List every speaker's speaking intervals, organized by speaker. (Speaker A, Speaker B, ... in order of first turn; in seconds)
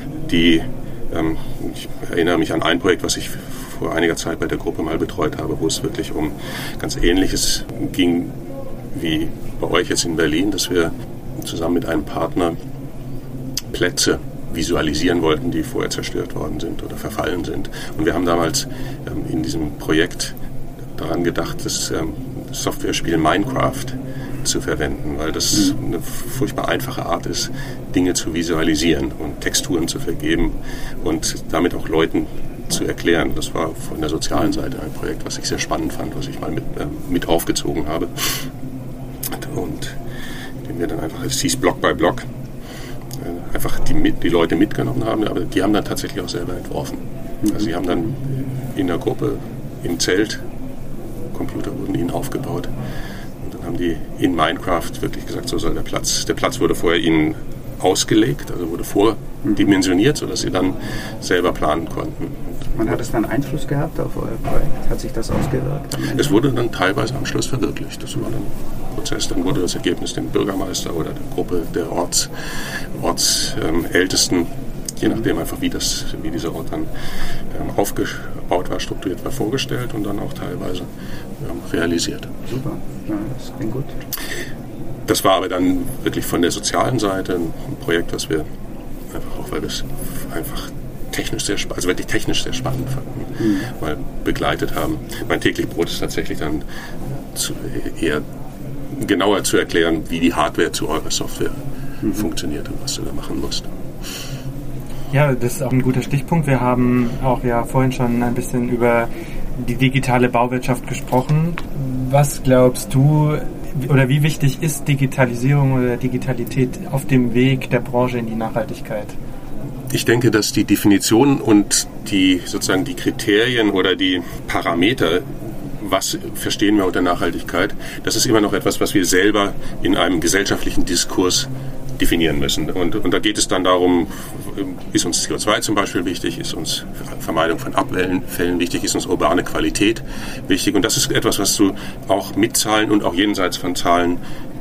Speaker A: 0.2-8.4, 8.9-12.6, 13.7-20.4, 20.9-38.5, 39.3-40.0, 40.6-42.3, 43.2-48.1, 48.7-50.4, 51.3-52.7, 53.4-62.9, 66.1-76.9, 77.5-82.3, 85.1-88.5, 89.1-96.6, 97.3-98.2, 98.9-103.7, 119.9-144.2
Speaker B: 47.4-48.1, 62.8-66.3, 82.5-83.9, 93.4-93.7
Speaker C: 105.1-119.2